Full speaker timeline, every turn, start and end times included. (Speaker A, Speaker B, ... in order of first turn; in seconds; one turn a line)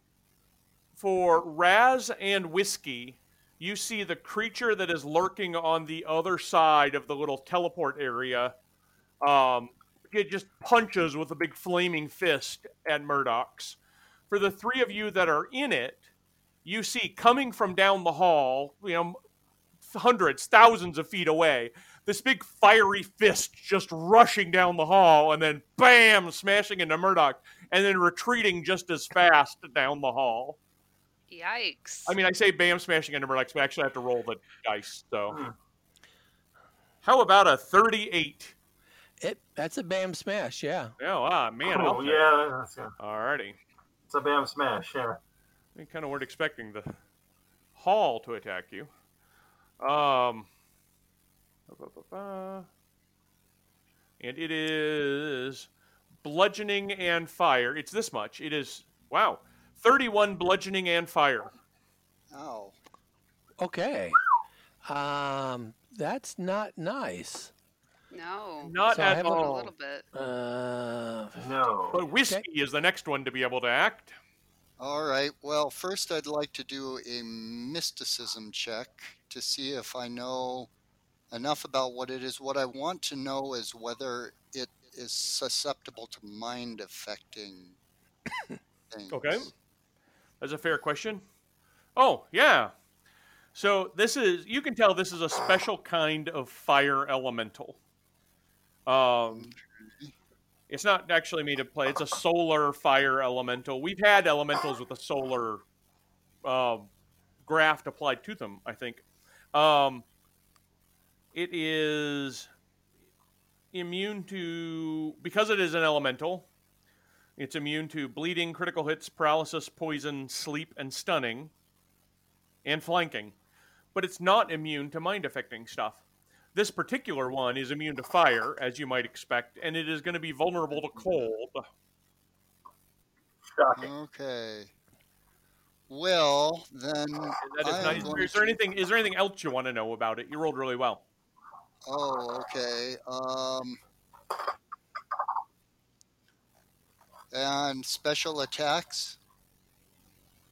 Speaker A: 1.0-8.5
Speaker A: 9.2-13.8
Speaker A: 14.3-16.0
Speaker A: 16.6-19.2
Speaker A: 19.9-30.6
Speaker B: 31.3-32.1
Speaker A: 32.0-35.4
Speaker A: 37.0-38.5
Speaker C: 39.2-40.9
Speaker A: 41.0-42.2
Speaker D: 41.7-42.9
Speaker A: 43.0-43.6
Speaker D: 44.1-45.2
Speaker A: 45.7-46.9
Speaker A: 47.8-48.9
Speaker A: 49.8-50.5
Speaker A: 51.7-52.7
Speaker A: 54.2-55.7
Speaker A: 56.2-61.5
Speaker E: 62.3-62.8
Speaker C: 63.6-64.2
Speaker C: 64.8-67.5
Speaker B: 68.1-70.0
Speaker A: 68.6-69.7
Speaker C: 68.9-69.4
Speaker C: 70.1-71.6
Speaker D: 71.4-72.0
Speaker A: 71.9-74.1
Speaker E: 74.8-80.7
Speaker E: 81.3-87.8
Speaker E: 88.9-89.5
Speaker A: 89.1-89.5
Speaker A: 90.4-91.2
Speaker A: 92.0-92.7
Speaker A: 93.5-97.8
Speaker A: 98.8-99.5
Speaker E: 99.3-100.1
Speaker A: 100.7-105.6
Speaker A: 106.4-106.9
Speaker A: 107.4-110.0
Speaker A: 111.3-112.5
Speaker A: 113.7-116.5
Speaker A: 117.4-121.5
Speaker A: 122.6-123.3
Speaker A: 123.9-126.0
Speaker A: 126.5-131.6
Speaker D: 133.6-133.9
Speaker E: 133.7-134.7
Speaker E: 135.9-138.6
Speaker A: 137.4-141.0
Speaker E: 141.9-143.8
Speaker E: 147.3-149.2